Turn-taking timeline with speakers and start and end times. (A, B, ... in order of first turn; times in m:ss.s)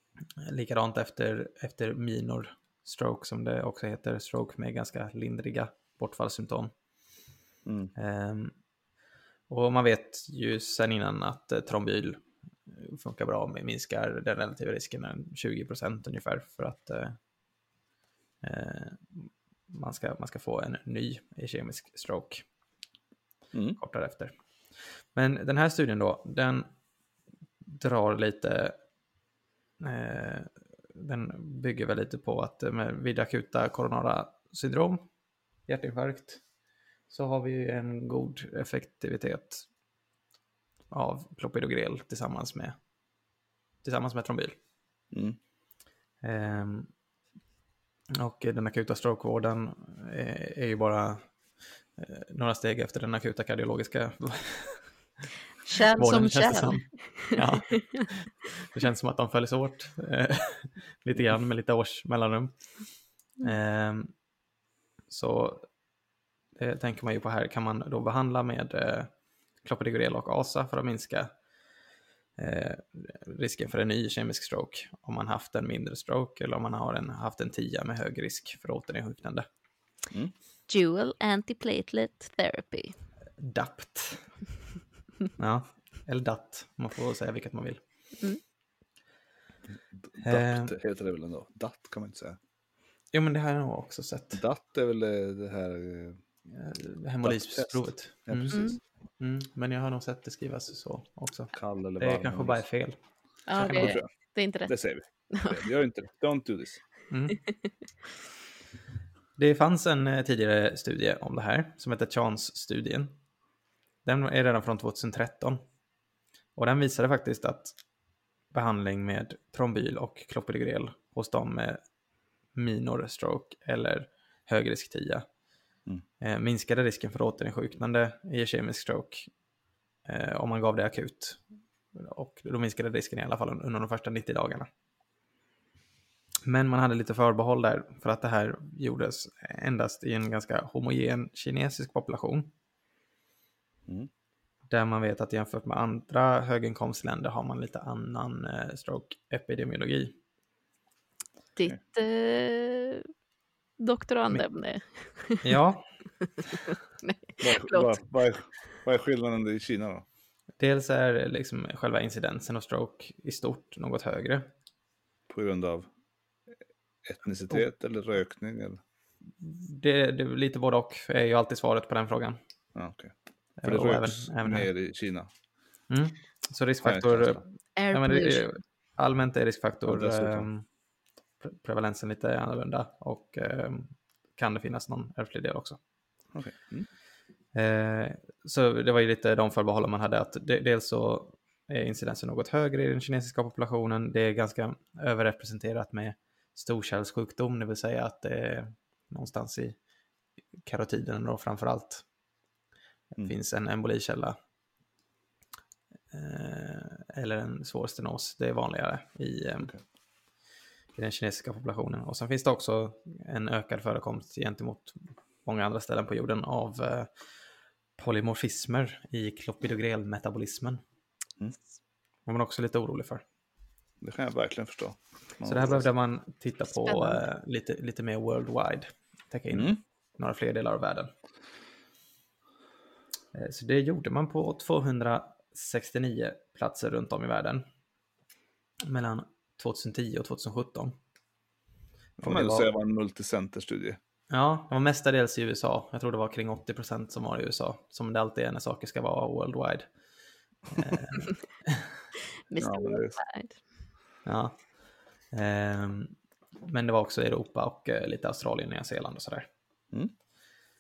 0:00.4-0:06.7 A
0:07.6-0:07.9 B
0:08.0-0:08.6 A
0:09.5-0:17.2 A
0:18.4-0:22.5 A
0:23.5-0:23.8 B
0:23.8-0:24.3 A
0:25.1-0:26.7 A
0:27.7-0:28.8 A
0:29.8-0:35.1 A
0:35.6-0:36.4 A
0:37.1-0:39.7 A
0:40.9-0:42.8 A
0:43.8-0:44.6 A
0:45.1-0:45.4 B
0:46.2-0:46.9 A
0:48.2-0:51.4 A
0:52.0-0:54.9 A
0:55.7-0:57.4 C
0:56.0-1:04.2 A
1:05.1-1:05.7 A
1:06.6-1:11.4 A
1:12.4-1:19.5 A
1:20.7-1:23.0 C
1:23.4-1:24.3 A
1:25.4-1:27.8 A
1:30.0-1:32.4 B
1:30.2-1:30.8 A
1:33.1-1:34.4 A
1:34.3-1:36.2 B
1:36.5-1:38.7 A
1:37.2-1:38.8 B
1:38.5-1:38.8 C
1:39.2-1:43.0 A
1:41.5-1:42.6 B
1:43.5-1:44.8 C
1:43.6-1:44.0 A
1:43.6-1:44.1 B
1:44.7-1:46.8 B
1:45.3-1:45.6 C
1:47.1-1:47.4 A
1:49.4-1:53.2 A
1:54.0-1:55.6 A
1:56.6-1:57.8 A
1:58.5-2:01.8 A
2:02.5-2:05.2 A
2:06.2-2:09.3 A
2:10.0-2:11.4 A
2:11.9-2:14.7 A
2:16.4-2:22.5 A
2:24.7-2:30.2 A
2:31.6-2:33.1 C
2:33.8-2:35.5 C
2:35.4-2:35.9 A
2:36.3-2:38.0 C
2:37.4-2:40.0 B
2:40.6-2:44.5 A
2:45.3-2:45.9 B
2:47.0-2:48.8 B
2:49.4-2:52.4 A
2:52.8-2:55.3 B
2:53.6-2:54.7 A
2:55.9-3:00.7 A
2:56.8-2:57.4 B
2:57.8-2:58.5 C
2:59.9-3:00.5 B
3:01.4-3:05.8 A
3:06.3-3:06.9 B
3:07.5-3:19.8 A
3:20.6-3:22.0 A
3:23.2-3:24.4 A
3:26.1-3:29.7 A
3:31.0-3:37.1 A
3:38.0-3:40.8 A
3:42.3-3:43.2 A
3:44.0-3:45.9 B
3:45.4-3:51.1 A
3:46.9-3:47.2 C
3:49.5-3:49.8 B
3:53.3-3:57.7 A
3:58.8-4:01.0 A
4:02.2-4:04.0 B
4:02.2-4:02.7 A
4:04.3-4:09.9 A
4:10.8-4:11.8 A
4:12.5-4:13.6 C
4:12.6-4:13.2 B
4:14.2-4:14.7 A
4:15.3-4:19.5 A